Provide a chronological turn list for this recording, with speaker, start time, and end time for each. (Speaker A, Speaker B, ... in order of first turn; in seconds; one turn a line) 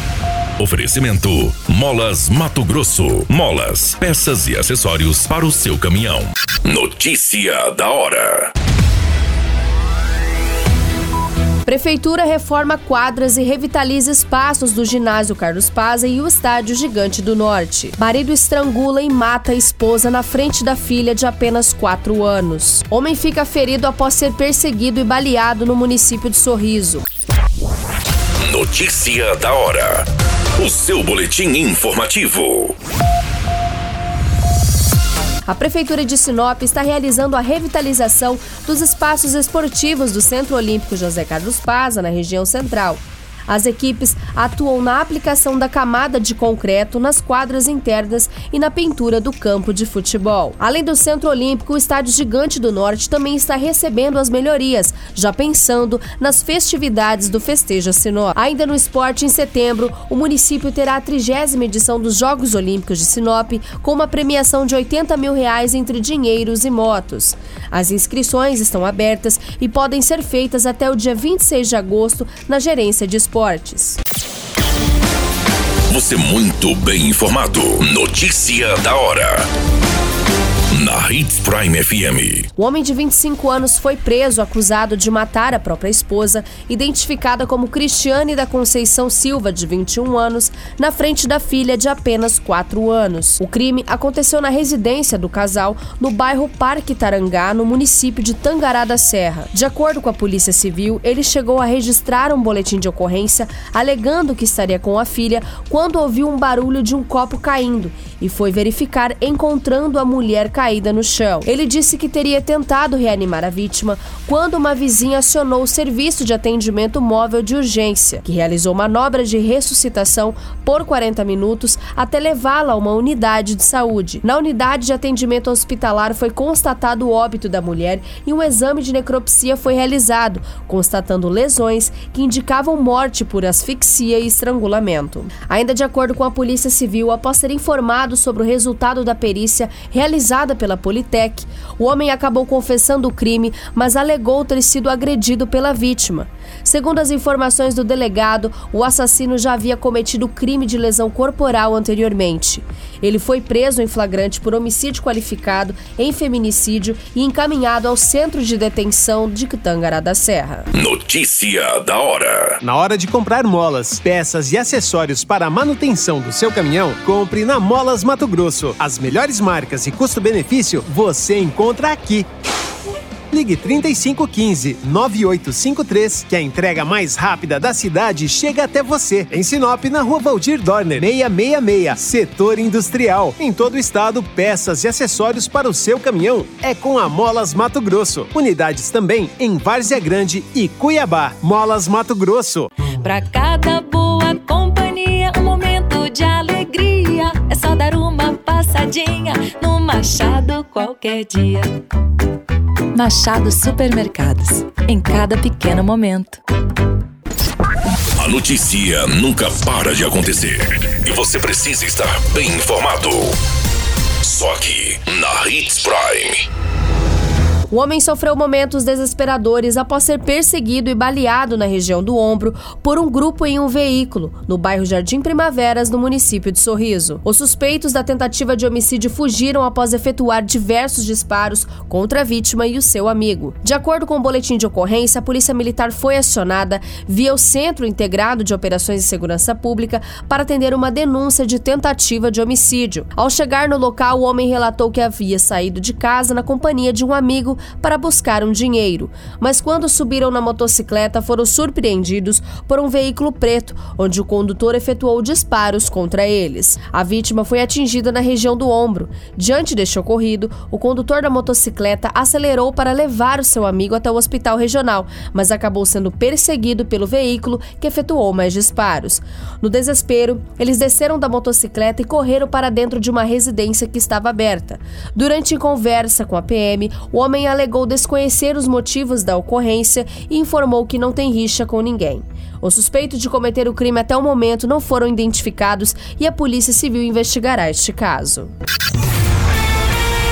Speaker A: 0.6-8.5
Speaker B: 11.7-27.0
Speaker A: 28.4-32.8
Speaker B: 35.5-74.0
Speaker A: 75.9-79.5
Speaker A: 80.7-82.5
Speaker B: 82.6-160.7
Speaker A: 160.8-162.6
Speaker C: 162.6-172.3
Speaker C: 173.3-192.7
Speaker D: 192.9-201.8
Speaker D: 202.9-206.4
Speaker A: 208.2-213.4
Speaker A: 214.2-216.5
Speaker B: 217.7-288.5